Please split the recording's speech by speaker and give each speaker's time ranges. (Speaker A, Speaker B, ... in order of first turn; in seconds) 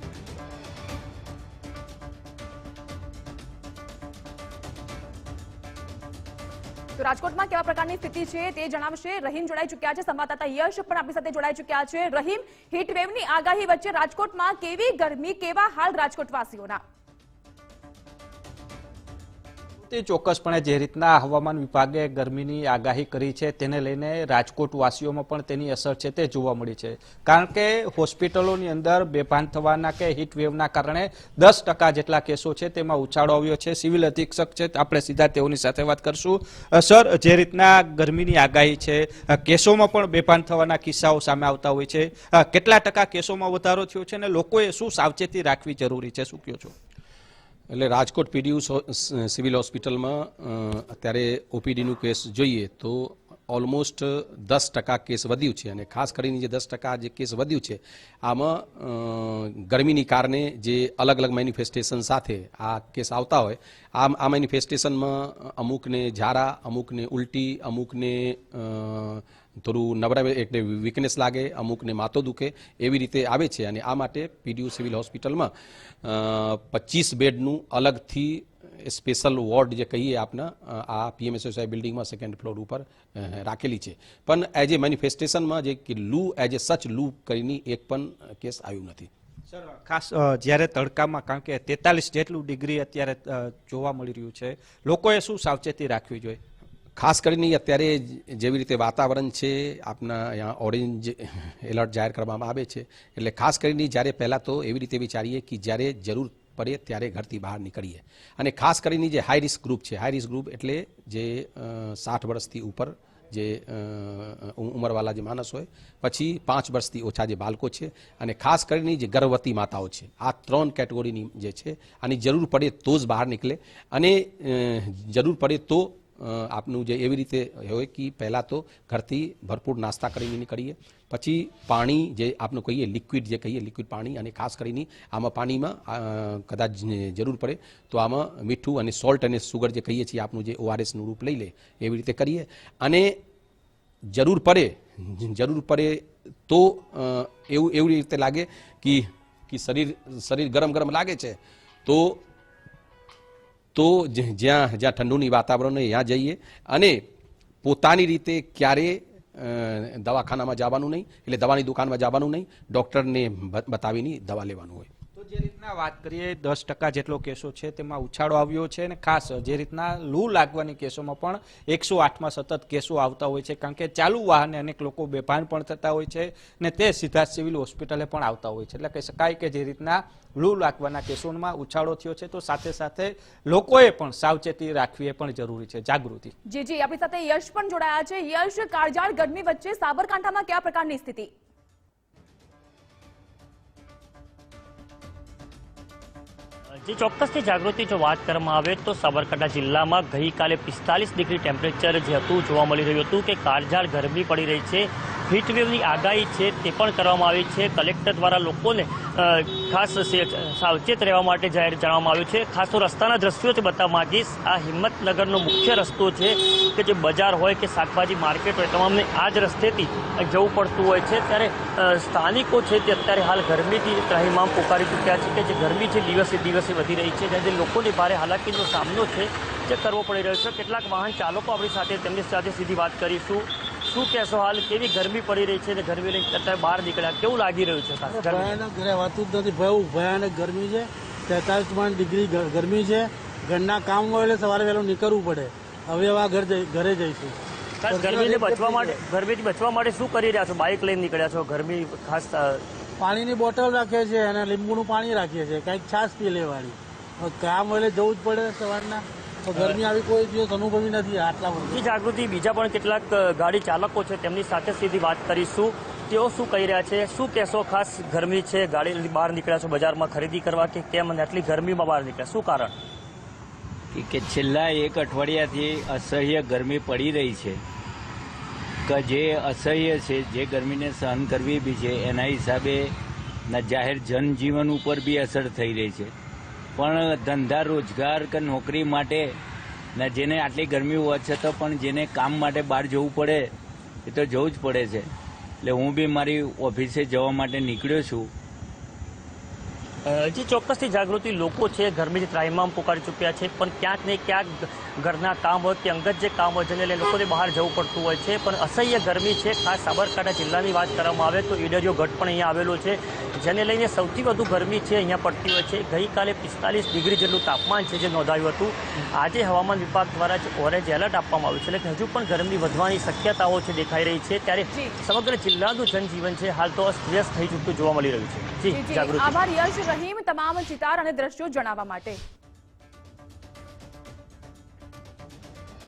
Speaker A: 7.0-16.8, 186.5-191.3, 324.7-325.0, 328.7-332.2
Speaker B: 19.8-46.8, 89.5-96.4, 165.2-186.3
Speaker C: 47.7-75.5, 76.0-89.1, 97.0-143.2, 144.1-152.2, 153.8-157.0, 157.6-164.9
Speaker D: 196.8-238.6, 247.8-252.6, 261.6-272.8, 300.1-329.4
Speaker E: 238.1-247.4, 247.9-249.0, 253.0-261.9
Speaker F: 273.9-277.6, 278.9-282.9, 283.5-286.1, 286.8-289.3, 290.0-293.5, 294.1-295.1, 295.6-298.3